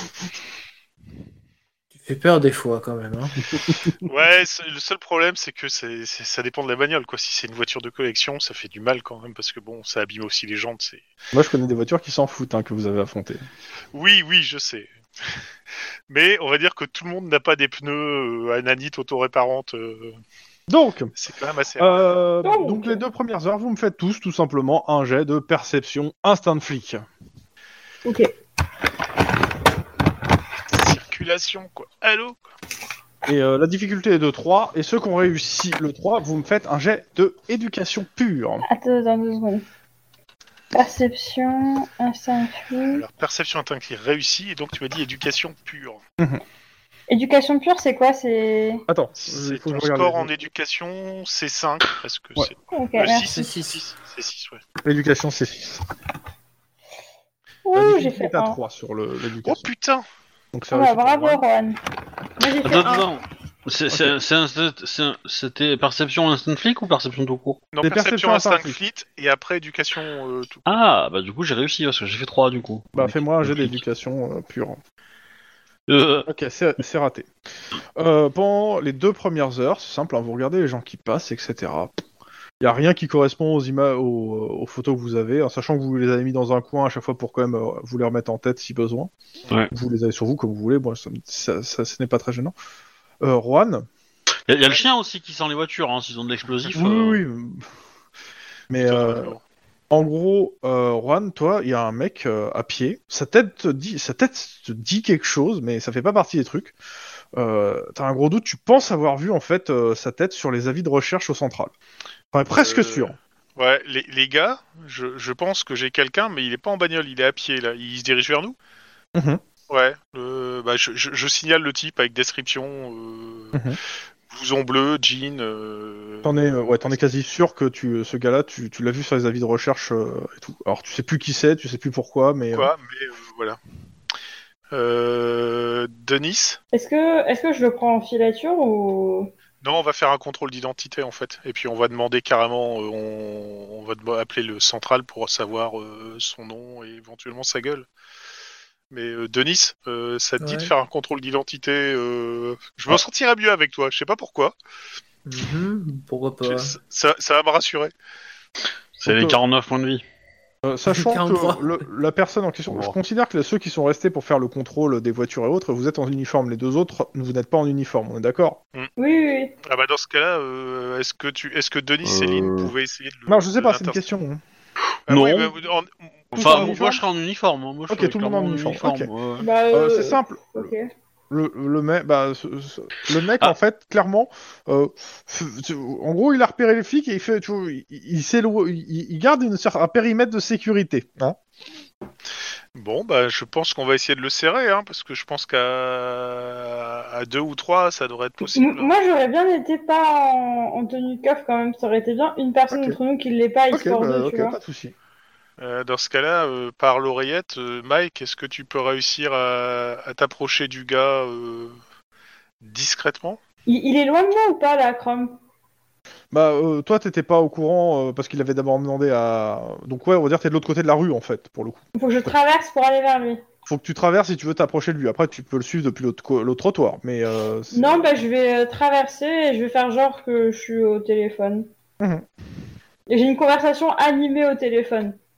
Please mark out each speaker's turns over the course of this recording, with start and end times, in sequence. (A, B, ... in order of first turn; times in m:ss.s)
0:01.9-0:03.5 A
0:03.6-0:03.8 B
0:04.1-0:11.0 C
0:11.3-0:13.4 B
0:13.9-0:14.9 C
0:16.1-0:20.2 C
0:20.7-0:21.1 B
0:21.1-0:22.1 C
0:21.8-0:27.0 B
0:22.4-0:23.0 D
0:28.0-0:28.3 D
0:30.7-0:32.4 C
0:33.3-0:38.6 B
0:38.6-0:39.6 D
0:40.7-0:43.0 D
0:42.9-0:46.0 C
0:47.1-0:48.8 D
0:48.9-0:50.3 B
0:49.2-0:54.6 C
0:52.7-0:53.4 D
0:53.3-0:53.8 A
0:54.8-0:55.8 B
0:57.6-0:58.6 D
0:57.7-0:59.7 B
0:59.4-1:00.0 C
1:00.5-1:01.4 B
1:00.7-1:01.8 D
1:02.4-1:03.1 D
1:02.6-1:07.6 E
1:03.9-1:04.2 B
1:07.7-1:10.6 C
1:07.8-1:08.8 B
1:10.6-1:13.8 E
1:12.9-1:14.8 B
1:15.9-1:16.3 E
1:16.3-1:17.3 B
1:18.0-1:22.0 B
1:22.6-1:29.1 B
1:29.7-1:32.5 B
1:33.2-1:33.9 B
1:34.5-1:37.2 E
1:36.7-1:37.6 B
1:38.7-1:39.3 B
1:38.8-1:39.4 C
1:39.9-1:46.7 B
1:47.4-1:51.7 B
1:52.3-1:53.2 B
1:52.6-1:58.6 C
1:59.1-1:59.4 B
1:59.7-2:03.6 C
2:03.5-2:03.8 B
2:04.3-2:07.0 C
2:06.2-2:12.7 B
2:12.5-2:13.6 C
2:14.7-2:16.6 C
2:16.7-2:19.3 D
2:19.6-2:27.9 C
2:28.9-2:34.5 C
2:30.4-2:30.7 A
2:35.3-2:36.8 A
2:36.4-2:37.9 C
2:39.0-2:40.0 E
2:39.1-2:39.4 B
2:40.6-2:48.6 B
2:40.9-2:41.7 A
2:49.0-2:49.5 D
2:49.6-2:54.0 C
2:52.0-2:52.7 E
2:53.3-2:54.4 B
2:55.1-2:55.5 E
2:55.1-2:56.8 C
2:56.3-2:57.0 B
2:56.3-2:59.4 E
2:57.9-2:59.1 B
2:59.4-3:00.9 D
2:59.7-3:00.7 B
3:01.3-3:11.4 B
3:12.7-3:18.9 C
3:18.4-3:24.6 D
3:22.7-3:23.0 B
3:23.7-3:24.9 B
3:25.6-3:31.8 C
3:32.6-3:33.4 C
3:33.7-3:35.4 D
3:36.3-3:42.3 B
3:41.9-3:43.4 D
3:43.6-3:48.1 B
3:47.7-3:51.7 D
3:52.0-3:52.3 B
3:53.1-3:55.2 D